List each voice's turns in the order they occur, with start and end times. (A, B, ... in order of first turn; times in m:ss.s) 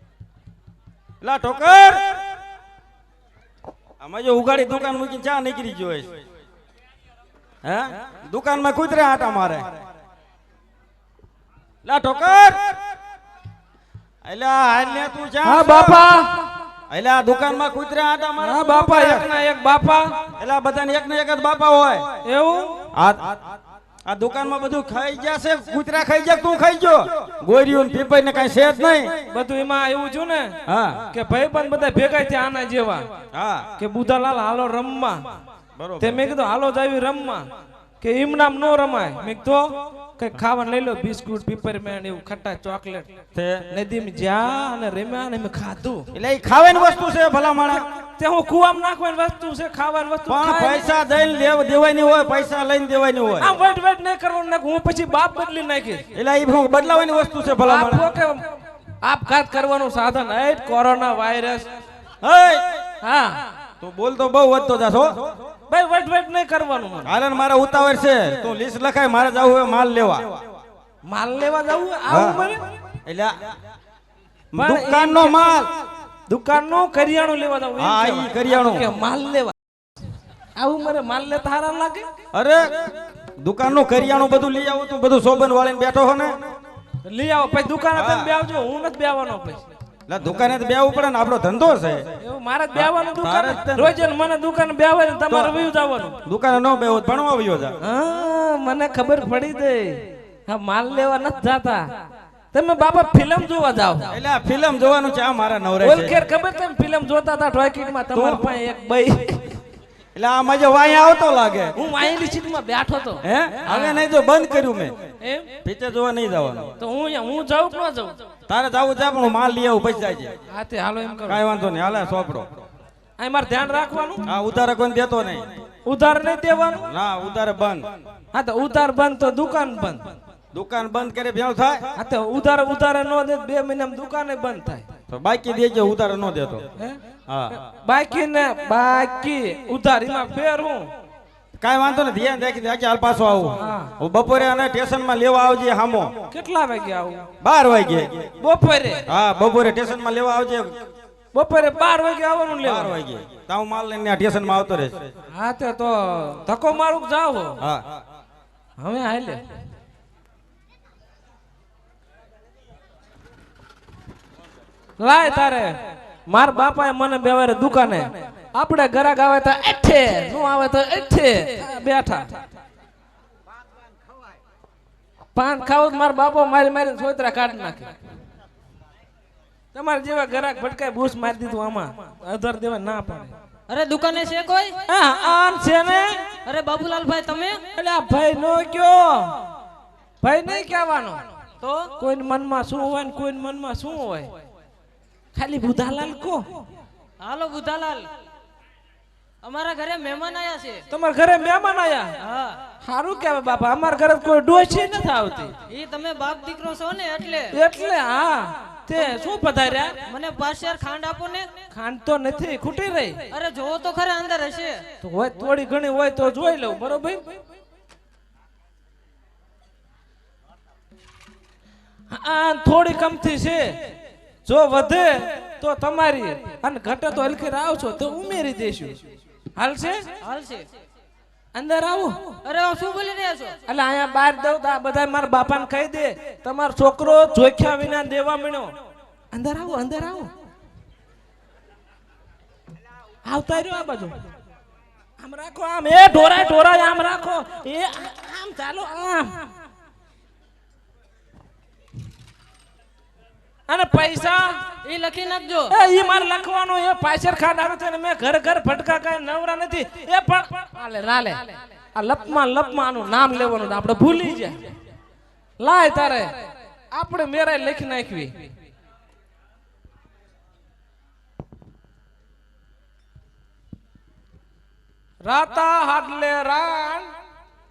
0:01.2-0:02.0 A
0:04.0-0:06.1 A
0:07.6-0:09.7 A
0:11.8-0:12.8 A
0:14.2-0:16.1 A
0:15.4-0:16.5 B
0:16.9-0:19.3 A
0:18.4-0:20.2 B
0:20.4-0:22.0 A
0:22.2-0:22.8 B
0:22.9-0:23.4 A
0:24.0-0:29.1 A
0:29.3-0:30.6 B
0:30.7-0:31.0 A
0:31.1-0:33.1 B
0:33.3-0:33.7 A
0:33.8-0:35.2 B
0:35.8-0:36.2 A
0:36.0-0:37.5 B
0:38.0-0:43.1 B
0:43.3-0:43.6 A
0:43.7-0:46.1 B
0:46.1-0:47.8 A
0:48.2-0:50.9 B
0:50.3-0:53.5 A
0:53.4-0:56.0 B
0:56.1-0:58.1 A
0:57.6-0:58.4 B
0:59.0-1:01.7 B
1:02.2-1:02.8 A
1:03.0-1:03.4 B
1:03.8-1:05.3 A
1:05.7-1:07.1 B
1:07.0-1:10.4 A
1:11.0-1:12.6 B
1:12.1-1:12.4 A
1:13.0-1:13.5 A
1:14.5-1:15.7 A
1:14.6-1:15.6 B
1:16.3-1:19.5 B
1:17.8-1:18.9 A
1:20.5-1:22.1 B
1:22.3-1:22.8 A
1:23.4-1:26.4 A
1:27.0-1:29.6 B
1:28.0-1:28.3 A
1:30.1-1:32.0 A
1:32.2-1:36.2 B
1:32.7-1:33.9 A
1:35.3-1:35.5 A
1:36.2-1:37.7 A
1:37.8-1:41.8 B
1:42.5-1:44.1 B
1:44.1-1:46.2 A
1:45.8-1:49.5 B
1:48.1-1:48.4 A
1:50.1-1:51.7 A
1:51.7-1:54.0 B
1:53.2-1:55.0 A
1:55.2-1:55.5 B
1:55.6-1:56.7 A
1:56.8-1:58.2 B
1:58.5-2:00.3 A
2:00.5-2:01.4 B
2:01.3-2:02.5 A
2:03.2-2:04.3 B
2:04.2-2:05.5 A
2:05.8-2:06.8 B
2:06.9-2:07.9 A
2:08.3-2:10.1 B
2:10.5-2:11.8 A
2:12.0-2:14.8 B
2:15.1-2:16.6 A
2:17.3-2:17.6 A
2:17.5-2:20.9 B
2:21.6-2:26.1 A
2:23.6-2:23.9 B
2:26.3-2:27.2 B
2:27.4-2:28.3 A
2:28.4-2:29.0 B
2:29.1-2:30.7 A
2:31.3-2:33.0 B
2:32.6-2:35.0 A
2:35.3-2:37.6 B
2:38.8-2:39.4 B
2:45.0-2:52.4 B
2:55.3-2:57.9 B
2:59.7-3:03.3 B
3:03.7-3:04.8 C
3:04.9-3:06.2 B
3:06.4-3:07.6 C
3:07.7-3:09.4 B
3:10.2-3:11.2 B
3:11.6-3:11.9 C
3:12.0-3:14.3 B
3:15.3-3:16.4 B
3:17.2-3:18.1 C
3:19.4-3:20.8 C
3:20.9-3:22.1 B
3:22.2-3:22.6 C
3:22.8-3:25.5 B
3:25.7-3:27.5 C
3:27.5-3:30.0 B
3:30.0-3:31.5 C
3:31.7-3:33.3 B
3:33.3-3:34.8 C
3:35.0-3:37.2 B
3:42.1-3:43.8 B
3:44.4-3:49.0 B
3:49.6-3:50.0 B
3:50.2-3:50.7 C
3:51.5-3:52.2 B
3:52.4-3:53.6 C
3:53.7-3:58.7 B
3:59.3-4:00.3 B
4:03.2-4:04.2 B
4:05.2-4:09.5 B
4:13.7-4:14.6 B
4:14.8-4:15.7 C
4:15.7-4:24.6 B
4:25.6-4:28.5 B
4:35.2-4:37.1 B